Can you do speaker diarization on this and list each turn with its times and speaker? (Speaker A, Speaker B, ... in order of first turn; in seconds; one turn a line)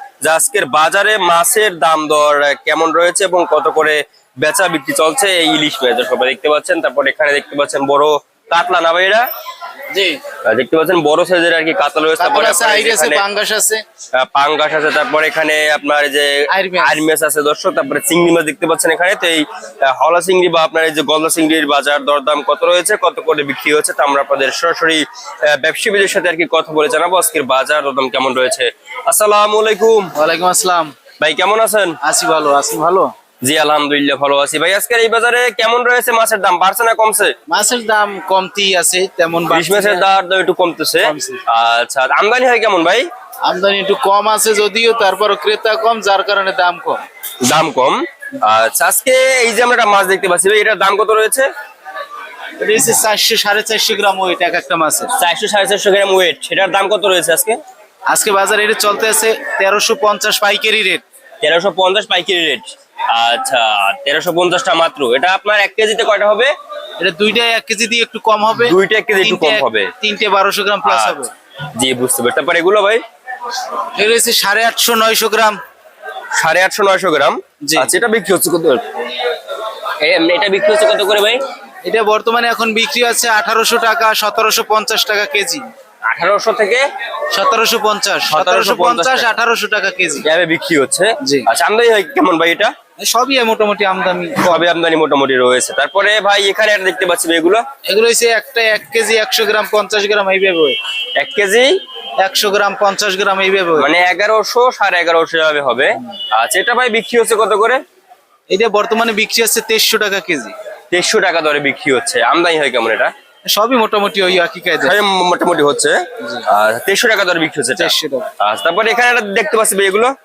Speaker A: 0.2-9.2
Speaker B: 9.9-10.2
Speaker A: 10.4-13.2
Speaker B: 12.2-13.8
Speaker A: 14.1-30.1
Speaker B: 16.5-17.0
Speaker B: 30.1-30.9
Speaker A: 31.2-32.0
Speaker B: 32.0-33.1
Speaker A: 33.4-37.3
Speaker B: 37.5-40.0
Speaker A: 39.5-43.1
Speaker B: 41.0-41.4
Speaker B: 43.4-47.0
Speaker A: 47.4-51.5
Speaker B: 52.6-55.1
Speaker A: 55.2-57.6
Speaker B: 58.1-61.0
Speaker A: 61.4-66.5
Speaker B: 67.0-71.3
Speaker A: 68.6-69.9
Speaker A: 70.8-73.0
Speaker B: 74.0-75.6
Speaker A: 76.3-78.8
Speaker B: 77.6-77.9
Speaker A: 80.0-81.4
Speaker B: 81.8-85.6
Speaker A: 86.1-86.8
Speaker B: 87.3-90.2
Speaker A: 88.3-89.3
Speaker A: 90.2-92.7
Speaker B: 93.0-94.6
Speaker A: 94.4-97.6
Speaker B: 97.8-100.8
Speaker A: 101.2-101.7
Speaker B: 102.2-103.9
Speaker A: 103.8-107.8
Speaker B: 108.5-110.5
Speaker A: 110.9-113.1
Speaker B: 113.5-114.9
Speaker A: 114.8-120.1
Speaker B: 117.8-118.3